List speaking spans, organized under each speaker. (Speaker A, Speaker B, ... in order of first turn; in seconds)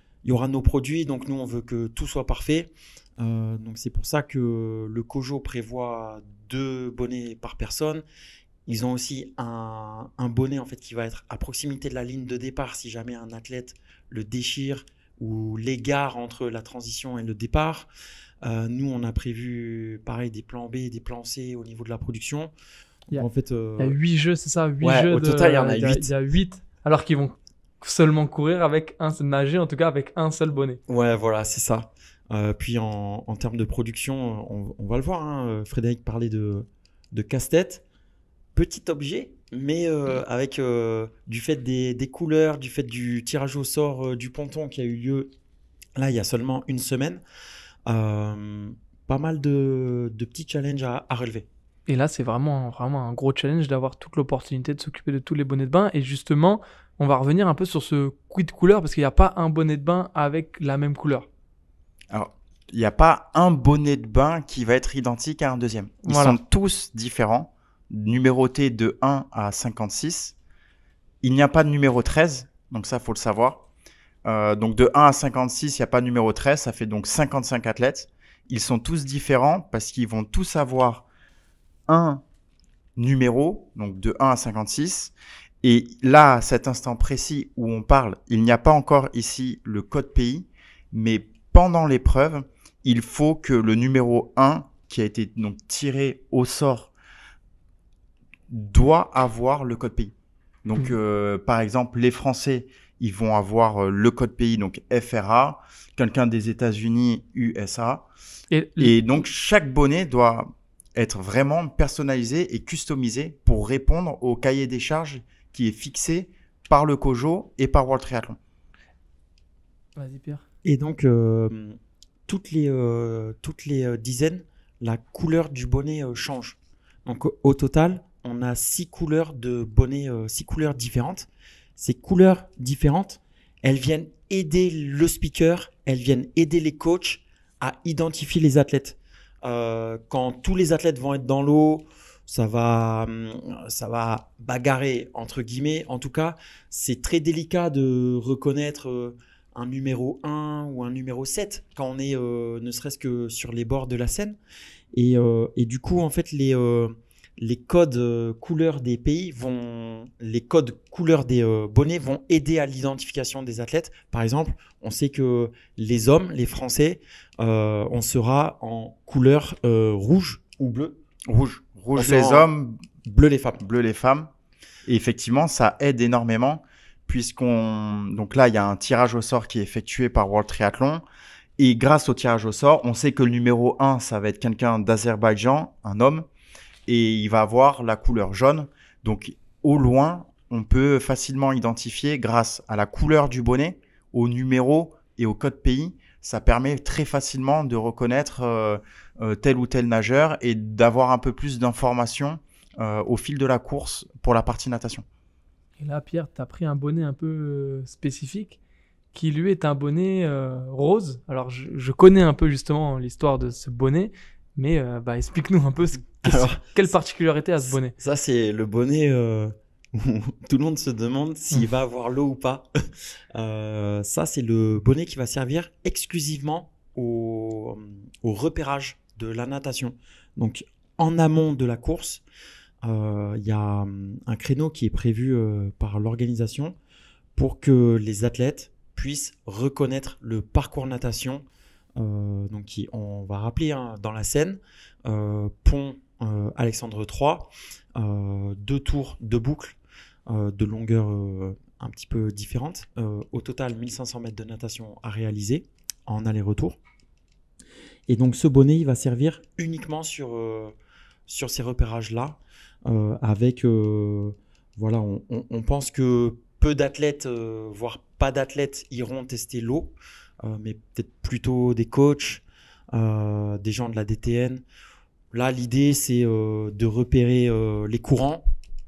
Speaker A: 0.2-8.0, 8.7-17.9, 18.4-22.5, 23.1-24.0, 24.8-26.1, 30.9-37.8, 38.5-45.3, 46.0-47.2, 47.9-51.5, 120.6-121.8, 122.3-154.4, 154.9-171.0, 171.9-172.5, 173.0-173.6, 216.3-216.9, 217.6-222.7, 223.3-232.2, 232.8-236.8, 237.3-241.4, 242.0-249.8, 250.3-256.8, 258.1-260.7, 261.3-274.6, 275.3-278.4
Speaker B: 23.1-30.8, 51.9-61.2, 66.0-66.4, 108.5-108.9, 120.0-120.4, 205.8-208.6, 209.1-217.9
Speaker C: 62.1-70.3, 71.2-73.6, 74.2-81.0, 81.9-82.2, 83.0-96.9, 98.5-100.1, 100.6-108.0, 108.8-118.4, 171.3-172.8, 173.6-174.3, 174.8-181.0, 181.6-186.2, 186.9-205.0